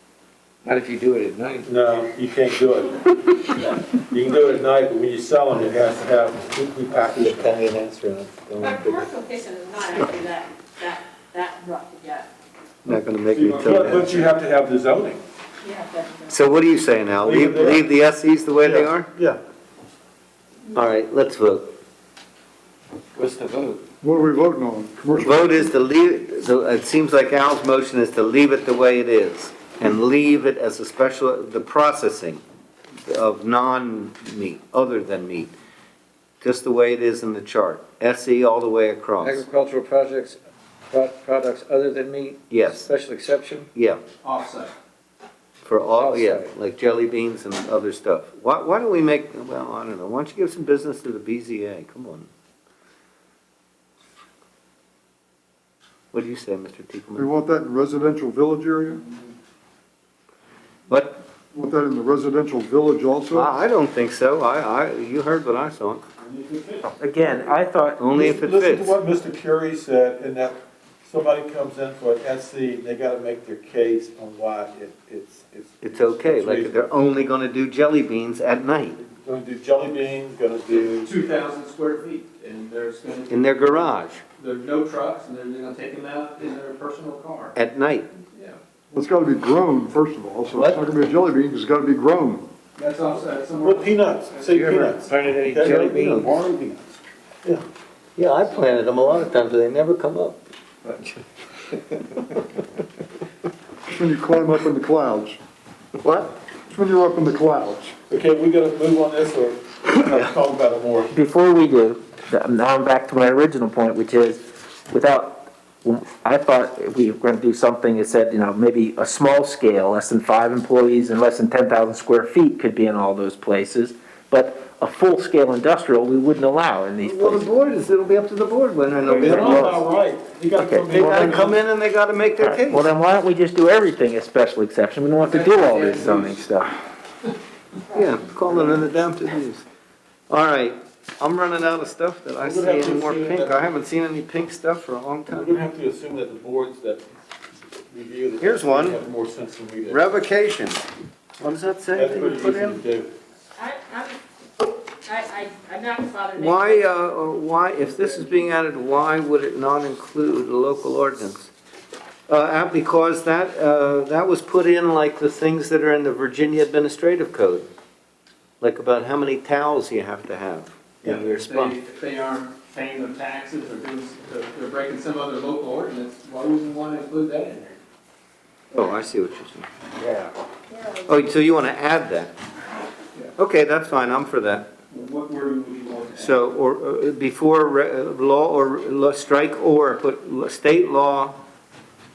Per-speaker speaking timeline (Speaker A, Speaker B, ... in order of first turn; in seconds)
Speaker A: 0.7-1.6, 23.1-23.8, 39.2-40.4, 40.9-43.6, 46.0-46.4, 94.5-96.2
Speaker B: 1.6-3.0, 4.0-7.5, 13.3-15.2, 17.2-17.9, 18.6-19.4, 66.3-66.8, 68.1-76.9, 79.0-81.1, 93.6-97.6, 108.1-111.1, 129.0-131.6, 142.4-143.6, 145.3-147.0, 147.9-150.1, 151.9-153.1
Speaker C: 6.9-9.1, 12.8-14.1, 16.3-19.1, 20.7-21.8, 25.1-32.4, 33.0-35.5, 36.4-39.4, 42.5-42.9, 43.7-44.0, 45.6-52.3, 56.1-57.3, 60.9-61.2, 63.3-66.0, 68.0-68.9, 75.8-79.0, 83.3-84.2, 87.5-88.1, 90.5-90.8, 95.8-96.2, 98.2-100.4, 106.0-106.3, 127.0-129.8, 130.9-132.9, 137.9-139.6, 140.3-145.6, 148.4-149.0, 149.9-150.8, 151.4-152.8, 156.3-161.5, 162.3-167.7, 168.6-171.8, 178.7-179.7, 181.1-182.3, 183.4-184.7, 186.2-191.4
Speaker D: 8.6-12.3, 15.6-16.4, 153.6-154.2, 155.0-156.8
Speaker E: 24.0-25.7, 57.2-59.0, 61.5-63.5, 88.9-92.5, 103.9-105.4, 106.7-107.9
Speaker F: 44.2-44.7, 80.7-87.5, 88.3-88.6, 92.8-94.5, 135.2-136.5, 171.0-177.8, 184.9-186.4
Speaker G: 67.0-68.3, 111.1-127.5, 129.0-129.8, 130.6-131.4, 132.4-136.7